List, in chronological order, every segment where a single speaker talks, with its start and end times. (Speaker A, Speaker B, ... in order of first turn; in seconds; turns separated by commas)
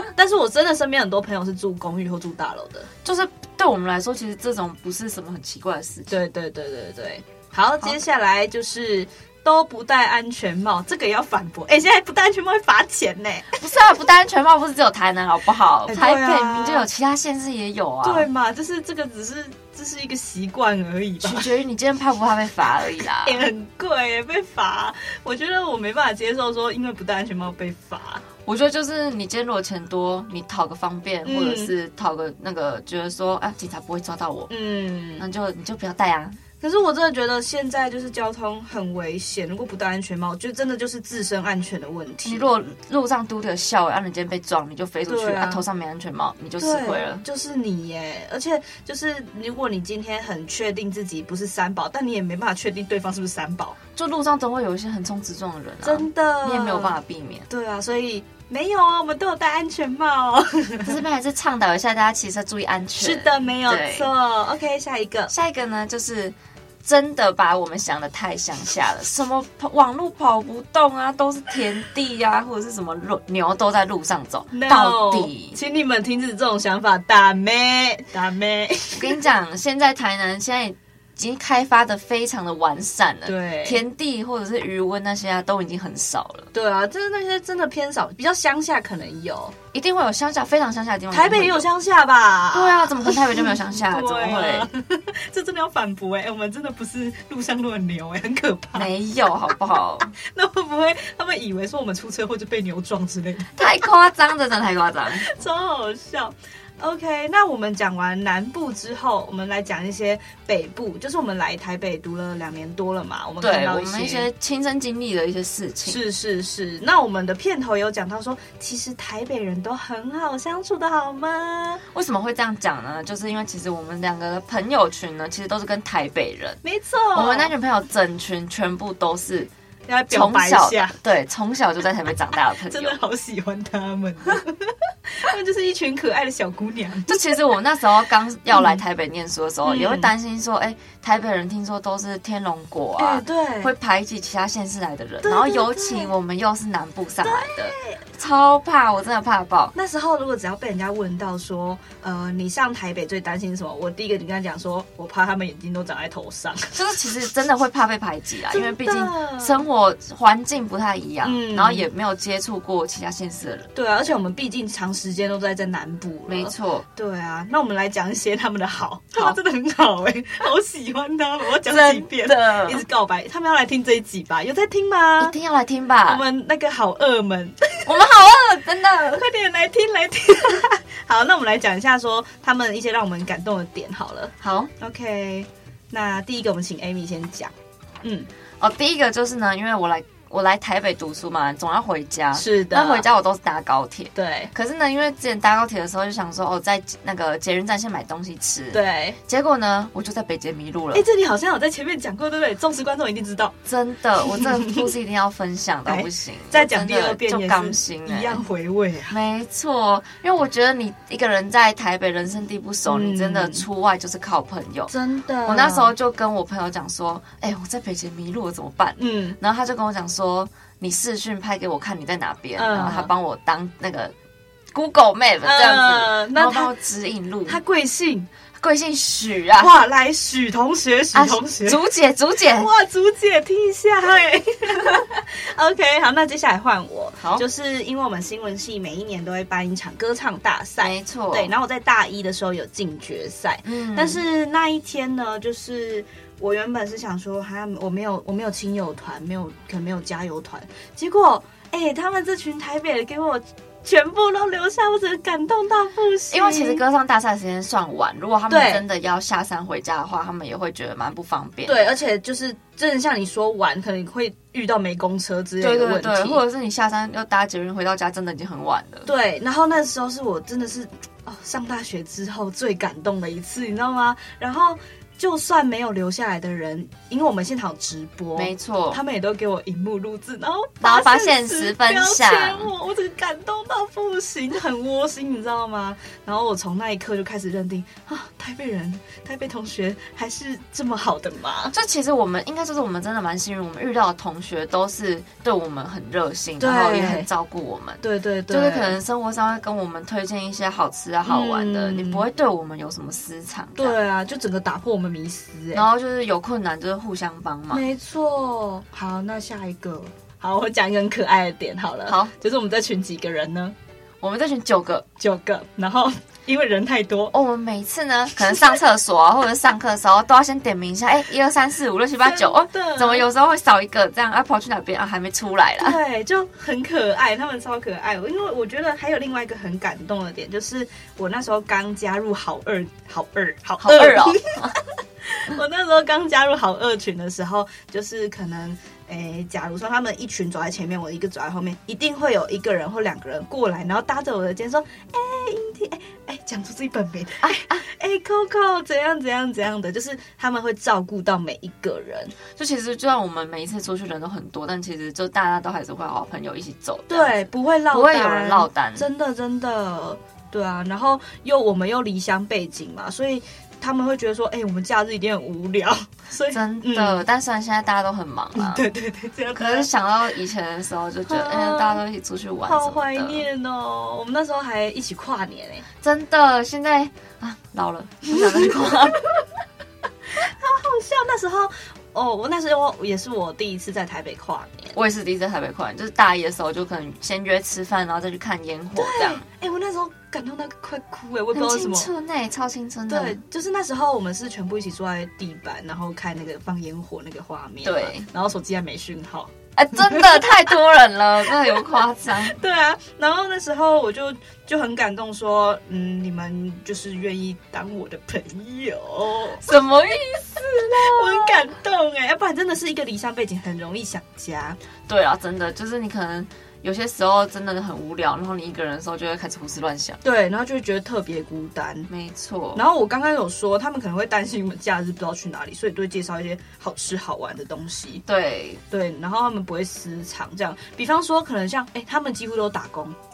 Speaker A: 0.1-2.9, Speaker B: 3.0-6.1, Speaker A: 6.1-13.6, Speaker B: 13.5-18.3, Speaker A: 15.8-16.9, Speaker A: 18.0-21.5, Speaker B: 21.2-23.4, Speaker A: 23.2-28.2, Speaker B: 28.4-34.5, Speaker A: 31.2-31.7, Speaker A: 34.5-35.2, Speaker B: 35.2-36.4, Speaker A: 36.6-42.5, Speaker B: 42.2-47.2, Speaker A: 45.1-45.6, Speaker A: 46.6-53.8, Speaker B: 53.9-57.5, Speaker A: 55.8-57.0, Speaker A: 57.5-61.0, Speaker B: 60.8-64.1, Speaker A: 63.0-65.3, Speaker B: 65.3-75.6, Speaker A: 74.5-79.2, Speaker B: 78.9-86.5, Speaker A: 83.2-83.8, Speaker A: 86.5-89.5, Speaker B: 89.7-91.7, Speaker A: 91.1-98.9, Speaker B: 92.5-94.7, Speaker B: 98.7-100.1, Speaker A: 100.2-103.5, Speaker B: 103.5-105.3, Speaker A: 105.2-114.3, Speaker B: 113.4-116.0, Speaker A: 115.8-121.8, Speaker B: 121.9-126.6, Speaker A: 126.6-127.5, Speaker B: 127.1-129.5, Speaker A: 129.9-131.0, Speaker B: 130.1-133.0, Speaker A: 132.7-137.3, Speaker B: 137.1-149.7, Speaker A: 138.5-138.8, Speaker A: 139.6-140.1, Speaker A: 143.0-143.7, Speaker A: 145.2-146.1, Speaker A: 147.2-148.0, Speaker A: 149.7-156.8, Speaker B: 156.7-163.7, Speaker A: 158.5-159.6, Speaker A: 161.2-161.9, Speaker A: 163.7-175.3, Speaker B: 166.3-166.8, Speaker B: 171.6-172.8, Speaker B: 175.2-176.2, Speaker A: 176.1-178.1, Speaker B: 177.8-179.3, Speaker A: 179.1-188.3, Speaker B: 184.4-184.7, Speaker B: 188.6-201.1, Speaker A: 192.3-193.1, Speaker A: 194.1-194.5, Speaker A: 198.7-199.2, Speaker A: 200.9-203.5, Speaker B: 203.7-208.4, Speaker A: 204.2-204.9, Speaker A: 205.8-209.2, Speaker B: 209.1-214.9, Speaker A: 212.8-213.7, Speaker A: 214.9-215.9, Speaker B: 215.4-224.1, Speaker A: 219.0-219.4, Speaker A: 222.6-223.1, Speaker B: 224.7-227.6, Speaker A: 225.4-226.7, Speaker A: 227.4-228.3, Speaker B: 228.6-229.7, Speaker A: 229.6-231.8, Speaker B: 231.1-232.7, Speaker A: 232.5-256.8, Speaker B: 240.8-241.5, Speaker B: 243.6-244.2, Speaker B: 256.3-261.9, Speaker A: 258.5-258.8, Speaker A: 261.6-266.4, Speaker B: 265.6-269.1, Speaker A: 269.1-291.7, Speaker B: 278.3-279.0, Speaker B: 280.8-282.7, Speaker B: 291.7-303.9, Speaker A: 296.6-297.3, Speaker A: 298.0-299.0, Speaker A: 301.2-302.2, Speaker A: 303.8-305.8, Speaker B: 305.7-307.8, Speaker A: 307.7-313.7, Speaker B: 312.1-312.3, Speaker B: 314.2-315.1, Speaker A: 315.2-317.3, Speaker B: 317.3-326.0, Speaker A: 322.2-323.3, Speaker A: 325.8-352.3, Speaker B: 333.8-334.7, Speaker B: 347.4-347.8, Speaker B: 352.5-359.1, Speaker A: 357.1-367.2, Speaker B: 366.5-368.8, Speaker A: 368.5-369.9, Speaker B: 369.5-373.4, Speaker A: 371.3-372.0, Speaker A: 372.6-375.8, Speaker B: 376.0-379.2, Speaker A: 378.3-379.4, Speaker A: 380.3-384.9, Speaker B: 384.9-389.4, Speaker A: 388.9-392.1, Speaker B: 391.5-393.4, Speaker A: 393.1-400.7, Speaker B: 397.8-398.3, Speaker B: 399.8-402.6, Speaker A: 401.4-409.7, Speaker B: 409.6-411.7, Speaker A: 410.7-414.8, Speaker B: 415.1-420.2, Speaker A: 420.2-422.1, Speaker B: 422.1-422.8, Speaker A: 422.7-428.2, Speaker B: 428.2-428.8, Speaker A: 428.9-433.2